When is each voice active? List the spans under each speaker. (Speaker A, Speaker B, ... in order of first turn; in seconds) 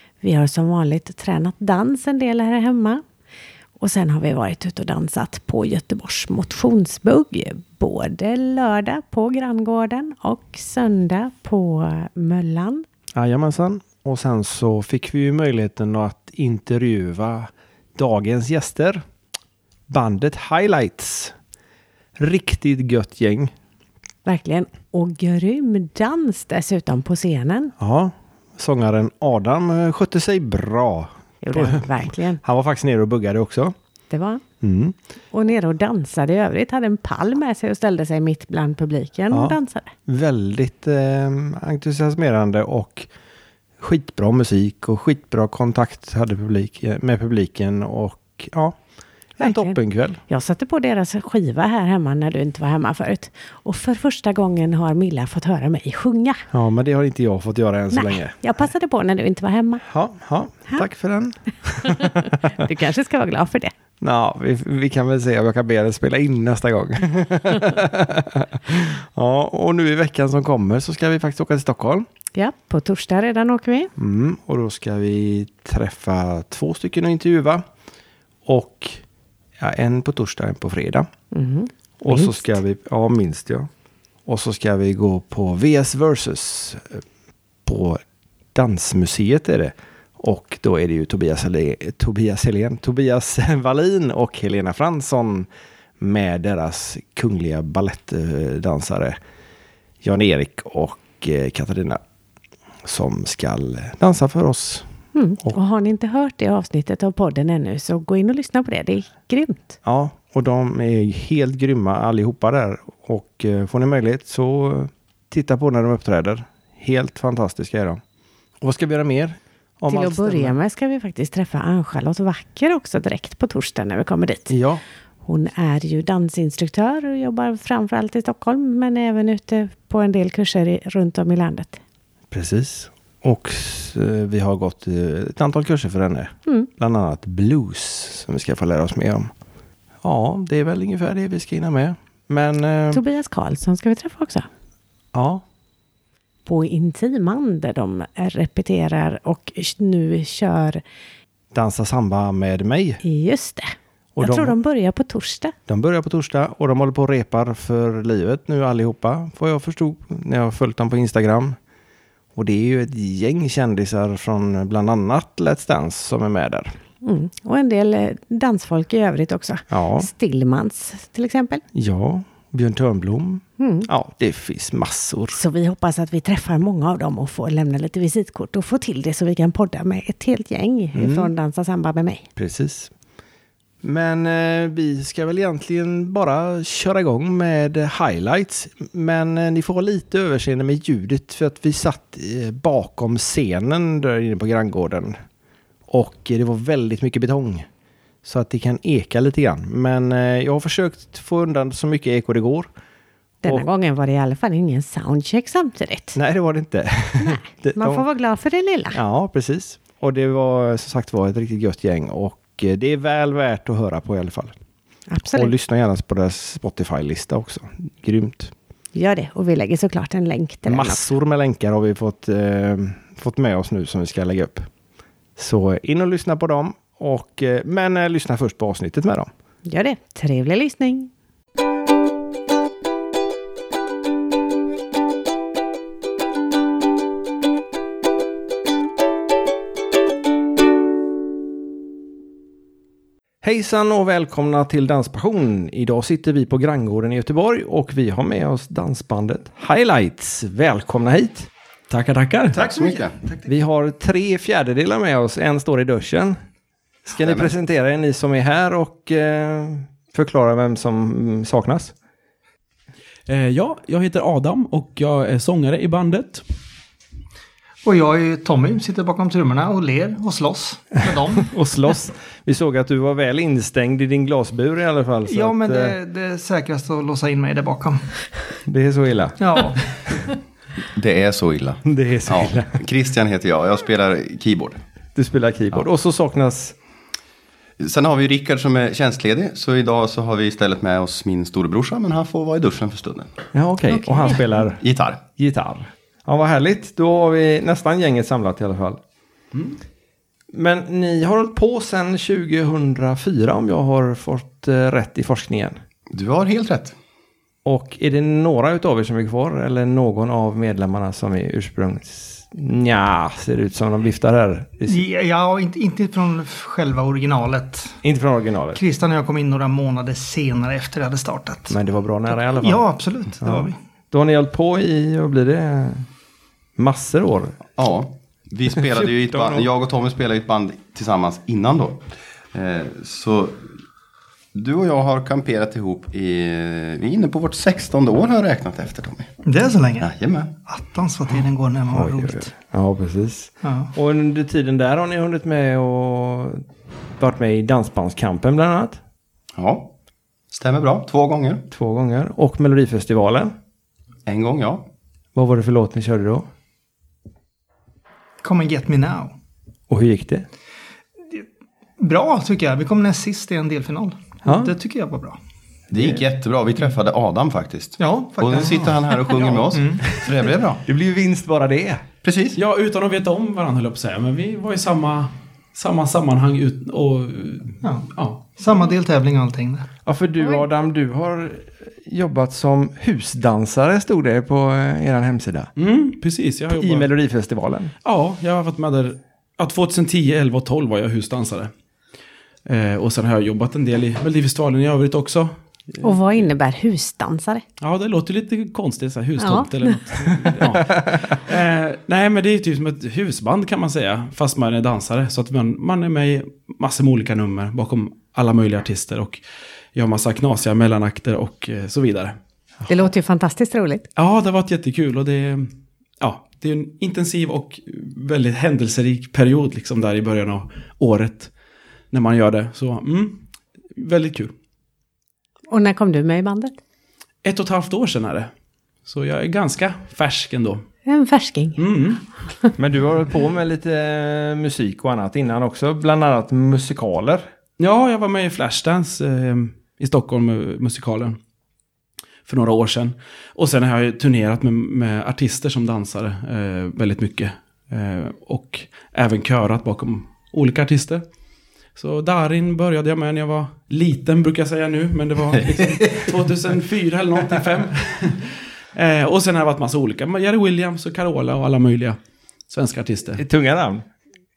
Speaker A: 0.2-3.0, 3.8-12.8, 24.2-27.7, 31.4-32.4, 34.1-34.4, 35.3-39.9, 49.4-49.8, 50.3-56.5, 57.9-59.9, 61.8-63.7, 72.3-73.9, 81.3-82.5, 105.1-109.8, 119.9-124.5, 125.2-131.8, 142.9-144.5, 146.4-150.8, 153.0-155.5, 167.0-171.6, 173.6-173.9, 175.3-182.2, 203.4-206.2, 207.2-209.0, 215.1-215.5, 218.9-221.1, 229.7-231.1, 293.9-294.4, 396.0-397.6, 399.4-400.0, 412.9-414.1, 425.7-426.7, 431.1-431.8
Speaker B: 13.1-19.0, 19.9-21.3, 22.2-23.5, 27.8-33.7, 34.6-35.0, 39.3-43.1, 43.8-48.8, 49.4-50.2, 56.5-58.4, 59.9-62.3, 64.0-72.0, 74.0-77.6, 78.5-79.0, 79.6-81.1, 82.0-83.7, 84.2-87.0, 87.6-88.0, 88.5-95.5, 96.0-99.2, 100.0-102.0, 102.8-104.9, 109.8-118.0, 118.6-120.5, 124.5-124.8, 132.3-139.3, 140.0-143.0, 145.1-145.4, 151.5-153.0, 154.2-154.6, 155.7-161.6, 162.3-166.7, 169.7-170.1, 171.7-175.4, 180.9-181.3, 182.3-182.9, 183.8-195.2, 195.9-197.7, 198.2-202.7, 206.1-208.0, 208.9-214.6, 215.3-218.5, 220.6-224.7, 225.3-229.3, 243.4-252.6, 253.4-256.4, 257.1-261.9, 271.4-275.9, 278.7-279.6, 281.8-282.8, 285.1-286.8, 293.5-299.0, 300.5-305.8, 307.6-315.0, 318.0-318.8, 321.7-322.8, 323.4-326.1, 326.8-327.6, 328.7-329.7, 341.9-346.6, 347.2-349.0, 351.7-353.5, 355.3-356.4, 359.9-360.4, 364.4-364.7, 370.8-372.0, 380.1-385.7, 386.7-387.9, 400.7-401.3, 432.8-437.4, 463.4-464.0
Speaker C: 252.5-253.2, 257.1-257.5, 280.9-284.8, 287.8-293.4, 294.8-295.2, 306.1-306.9, 327.8-333.6, 334.5-339.3, 340.0-340.5, 349.6-349.9, 350.5-351.6, 354.2-354.8, 365.9-370.8, 372.2-372.6
Speaker D: 252.6-253.5, 267.8-271.5, 275.3-278.1, 279.4-279.9, 314.9-318.0, 318.7-321.8, 322.3-323.8, 339.4-340.1, 340.6-342.5, 343.6-343.9, 358.4-359.3, 362.0-365.4, 368.0-370.1, 377.8-378.1, 378.6-379.9
Speaker E: 263.3-266.4, 299.5-299.8, 372.6-378.6, 385.8-387.1, 388.0-391.7, 392.6-396.0, 397.8-409.4, 409.9-412.4, 414.1-421.5, 422.1-424.5, 427.4-428.5, 429.1-430.8, 431.8-432.2, 437.8-441.4, 442.4-451.2, 451.9-462.2, 462.7-463.4